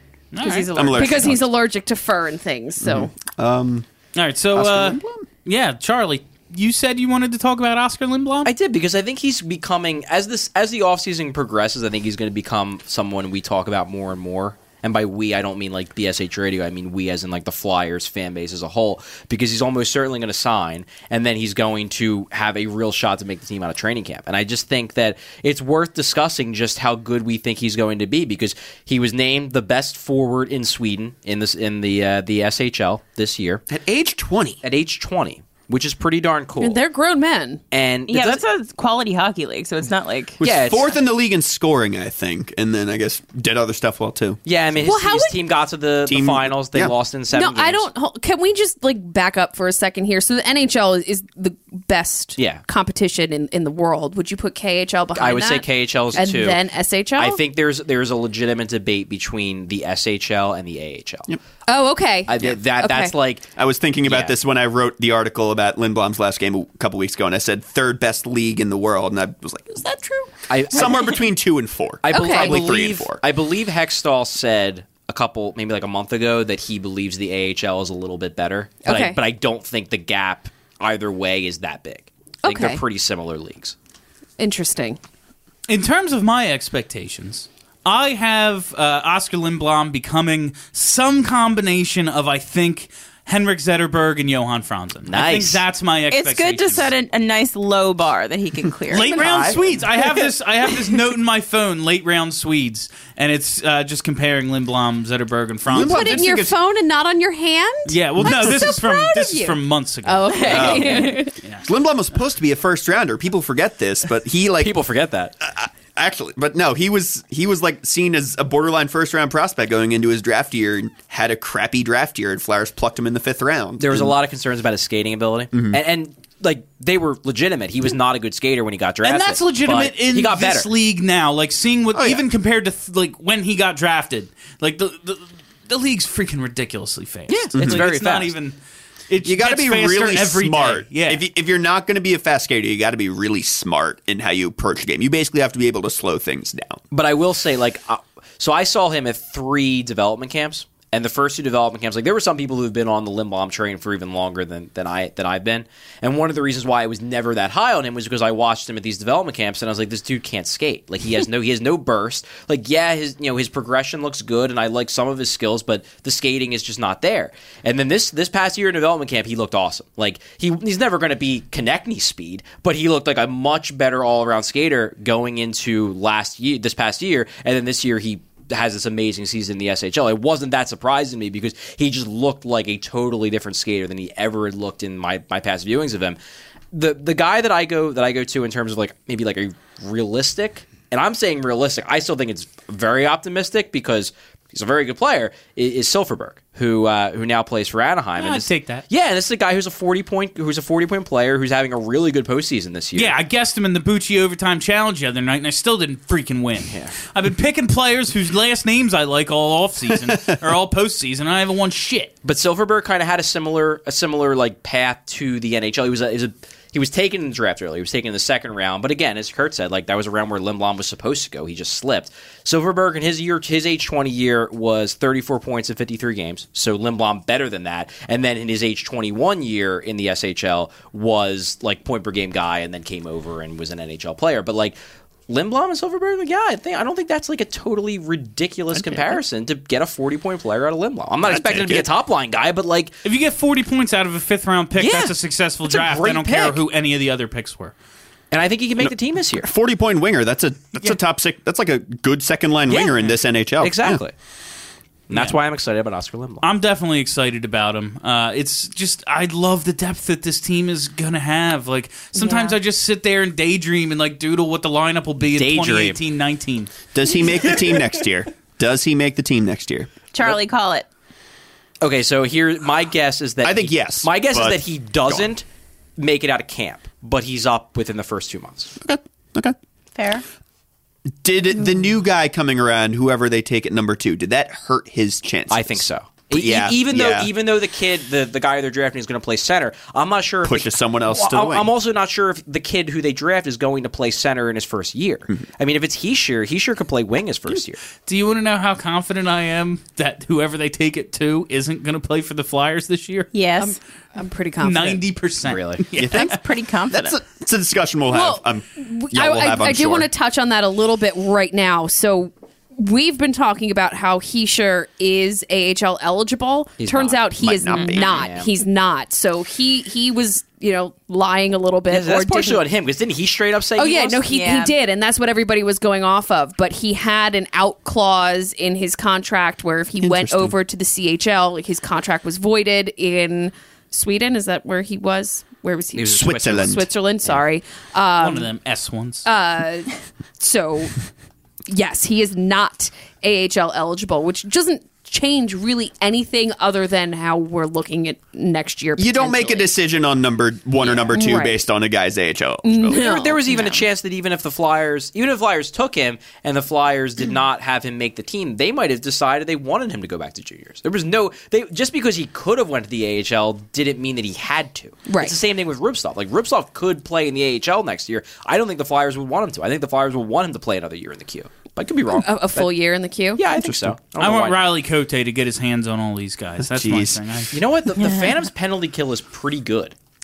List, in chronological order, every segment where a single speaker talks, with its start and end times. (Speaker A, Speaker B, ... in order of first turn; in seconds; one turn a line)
Speaker A: 0.3-0.8
Speaker B: 0.4-1.3
Speaker C: 0.7-1.5
Speaker D: 1.0-3.1
Speaker C: 2.8-3.9
Speaker A: 4.2-8.5
Speaker C: 4.5-5.3
Speaker E: 8.4-33.6
Speaker C: 33.7-34.6
Speaker E: 34.6-36.8
Speaker D: 36.6-37.6
Speaker E: 37.7-38.4
Speaker B: 38.1-40.4
Speaker C: 40.4-44.4
Speaker E: 40.4-40.9
Speaker E: 44.5-47.9
Speaker D: 44.8-45.4
Speaker C: 46.1-47.0
Speaker D: 47.3-57.4
Speaker E: 52.4-52.6
Speaker E: 55.2-56.6
Speaker E: 57.2-61.3
Speaker D: 61.7-63.1
Speaker E: 62.3-63.5
Speaker C: 63.6-70.0
Speaker E: 64.0-64.3
Speaker D: 69.9-70.3
Speaker E: 70.5-71.2
Speaker C: 70.7-73.2
Speaker E: 72.0-83.8
Speaker D: 72.1-72.6
Speaker D: 78.9-79.2
Speaker D: 82.4-82.8
Speaker D: 84.4-85.0
Speaker A: 85.7-96.9
Speaker E: 95.1-95.6
Speaker B: 96.1-99.5
Speaker A: 98.9-106.2
Speaker C: 99.2-99.8
Speaker C: 105.7-106.6
Speaker D: 105.8-111.3
Speaker A: 107.9-111.7
Speaker B: 110.3-111.3
Speaker C: 110.5-111.1
Speaker C: 111.7-114.8
Speaker E: 114.6-115.3
Speaker C: 115.4-124.2
Speaker E: 123.8-130.7
Speaker C: 125.5-125.8
Speaker A: 129.0-138.6
Speaker C: 131.9-132.2
Speaker E: 137.3-138.3
Speaker A: 139.1-141.2
Speaker C: 139.2-146.8
Speaker E: 146.9-186.2
Speaker E: 186.7-203.1
Speaker A: 198.2-198.8
Speaker A: 202.9-212.1
Speaker E: 206.7-207.0
Speaker C: 210.1-210.4
Speaker E: 212.2-234.8
Speaker E: 235.3-243.0
Speaker C: 241.2-241.9
Speaker A: 243.1-247.7
Speaker E: 244.8-245.1
Speaker E: 245.7-246.6
Speaker E: 248.3-249.5
Speaker C: 248.8-254.0
Speaker E: 253.6-254.1
Speaker E: 255.1-256.4
Speaker A: 255.1-255.4
Speaker A: 256.4-266.7
Speaker D: 262.2-262.5
Speaker E: 265.4-266.0
Speaker C: 266.9-269.9
Speaker B: 270.1-270.9
Speaker E: 271.8-275.4
Speaker C: 273.4-275.3
Speaker E: 276.0-278.7
Speaker C: 278.8-279.6
Speaker B: 279.9-280.2
Speaker C: 281.2-287.3
Speaker E: 285.5-297.8
Speaker C: 290.4-291.7
Speaker A: 298.1-303.3
Speaker B: 303.3-303.8
Speaker D: 303.6-305.0
Speaker A: 304.6-306.4
Speaker E: 305.4-305.9
Speaker C: 306.0-306.4
Speaker B: 306.0-307.2
Speaker C: 306.9-310.1
Speaker D: 308.1-322.6
Speaker E: 316.8-317.3
Speaker C: 317.4-318.2
Speaker E: 317.9-318.5
Speaker E: 321.9-324.3
Speaker D: 323.8-338.5
Speaker B: 324.3-324.8
Speaker C: 330.0-330.5
Speaker E: 335.9-337.4
Speaker C: 336.1-336.9
Speaker A: 338.2-339.3
Speaker D: 339.2-341.0
Speaker D: 341.7-349.7
Speaker C: 349.0-352.9
Speaker E: 350.8-351.1
Speaker D: 351.1-351.6
Speaker D: 352.6-353.4
Speaker E: 352.8-372.7
Speaker B: 353.5-353.9
Speaker D: 365.1-365.3
Speaker D: 372.1-373.4
Speaker E: 373.4-374.6
Speaker C: 373.5-374.0
Speaker A: 374.2-377.5
Speaker C: 376.6-377.2
Speaker E: 377.5-379.9
Speaker B: 378.0-378.4